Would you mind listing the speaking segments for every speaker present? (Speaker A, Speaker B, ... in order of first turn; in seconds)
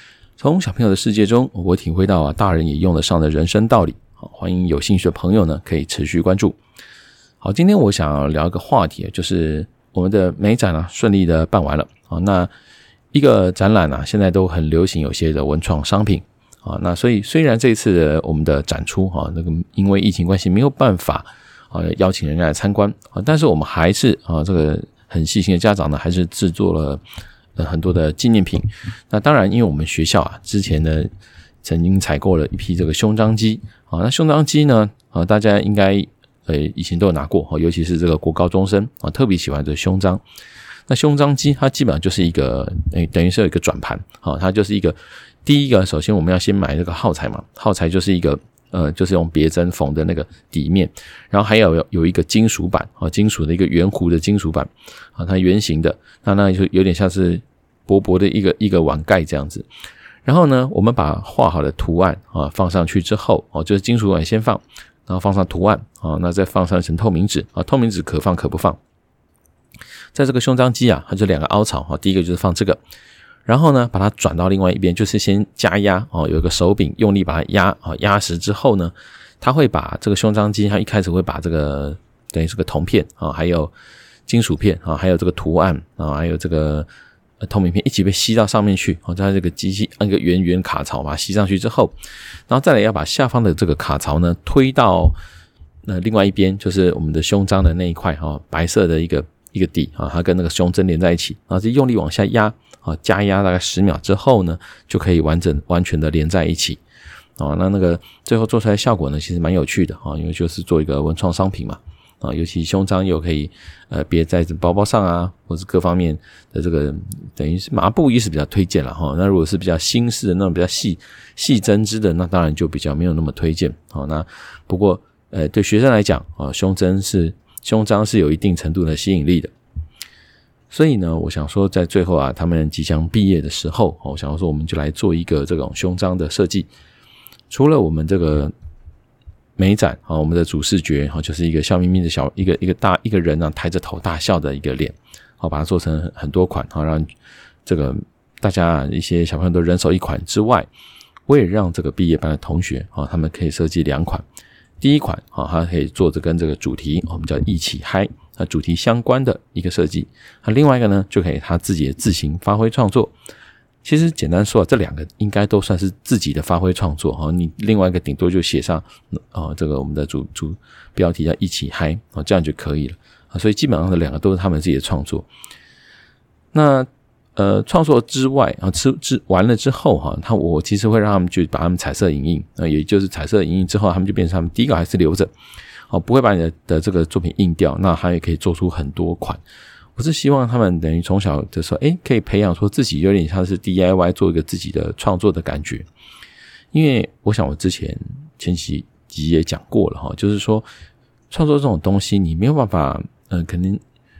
Speaker A: 0.4-6.6, 7.4-12.5, 13.1-27.0, 27.6-31.1, 31.6-40.2, 40.9-59.6, 60.2-68.8, 70.1-72.8, 73.5-83.7, 84.3-86.9, 87.4-92.0, 92.5-95.2, 95.8-106.8, 107.4-129.5, 130.7-136.7, 137.5-138.5, 139.6-147.1, 147.6-150.7, 151.3-154.2, 154.8-163.1, 163.8-175.3, 176.5-185.3, 185.9-189.4, 189.9-195.9, 196.7-200.7, 201.3-203.8